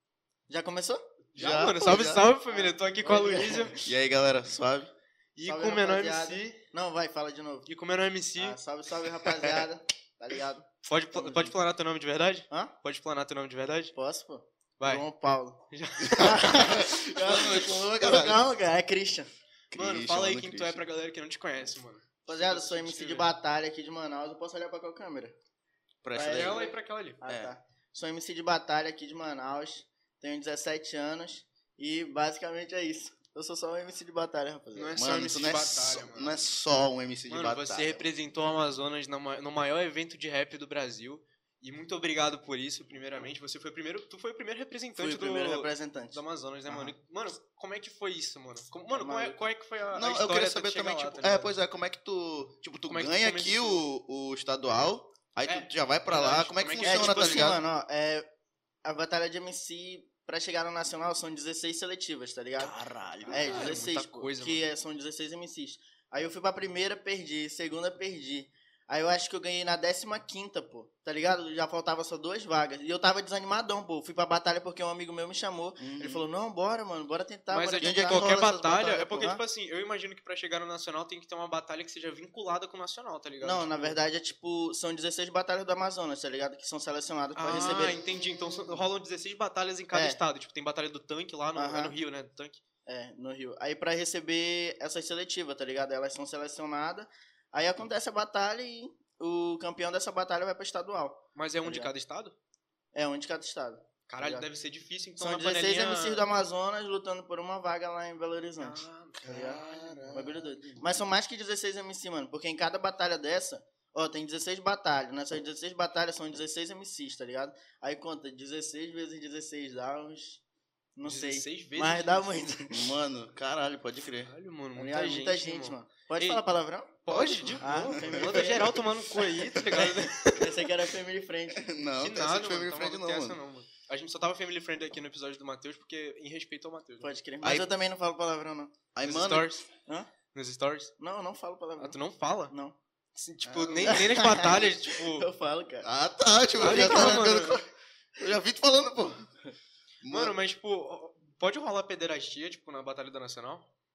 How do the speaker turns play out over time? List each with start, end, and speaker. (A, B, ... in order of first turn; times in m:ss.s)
0:00.5-0:01.0 A
0:01.3-0:03.8 B
0:01.4-0:02.3 C
0:02.5-0:03.9 A
0:03.8-0:04.9 C
0:05.4-0:06.6 B
0:05.4-0:07.7 A
0:07.7-0:08.6 B
0:08.4-0:11.5 A
0:10.8-0:13.9 B
0:13.9-0:19.3 A
0:14.8-0:15.1 B
0:15.7-0:16.8 B
0:16.0-0:18.4 C
0:19.7-0:20.8 C
0:19.7-0:23.3 B
0:22.3-0:25.3 A
0:26.0-0:26.7 C
0:26.1-0:35.0 A
0:26.2-0:27.2 B
0:27.3-0:27.5 C
0:34.8-0:36.4 B
0:35.0-0:38.1 C
0:37.3-0:51.5 B
0:45.0-0:46.9 A
0:48.9-0:49.4 A
0:49.9-0:57.6 C
0:52.9-0:53.8 B
0:55.4-0:57.6 B
0:56.8-0:58.3 A
0:58.8-1:02.7 A
1:02.6-1:03.8 C
1:03.3-1:19.4 A
1:03.3-1:04.7 B
1:15.8-1:16.2 C
1:17.5-1:24.0 B
1:17.8-1:19.0 C
1:23.4-1:28.0 A
1:27.4-1:32.6 B
1:29.9-1:30.2 A
1:31.6-1:32.0 A
1:32.9-1:41.9 A
1:41.4-1:42.4 B
1:42.9-1:44.5 A
1:44.1-1:46.2 B
1:45.2-1:48.8 A
1:48.6-1:50.2 B
1:49.2-1:51.0 C
1:50.1-2:00.4 A
2:01.0-2:02.9 A
2:01.0-2:02.3 B
2:02.7-2:04.3 C
2:04.3-2:06.4 B
2:04.8-2:07.0 A
2:07.0-2:10.7 B
2:07.1-2:08.8 C
2:07.6-2:11.6 A
2:11.5-2:13.4 C
2:12.0-2:17.1 B
2:17.0-2:18.7 A
2:17.4-2:17.7 C
2:18.9-2:19.5 C
2:19.0-2:19.7 B
2:20.3-2:20.9 B
2:21.0-2:22.0 A
2:21.8-2:22.5 B
2:22.5-2:22.8 A
2:23.2-2:25.3 B
2:23.4-2:25.9 A
2:25.8-2:29.3 C
2:26.6-2:27.6 B
2:26.6-2:27.4 A
2:30.0-2:30.4 C
2:30.1-2:33.7 B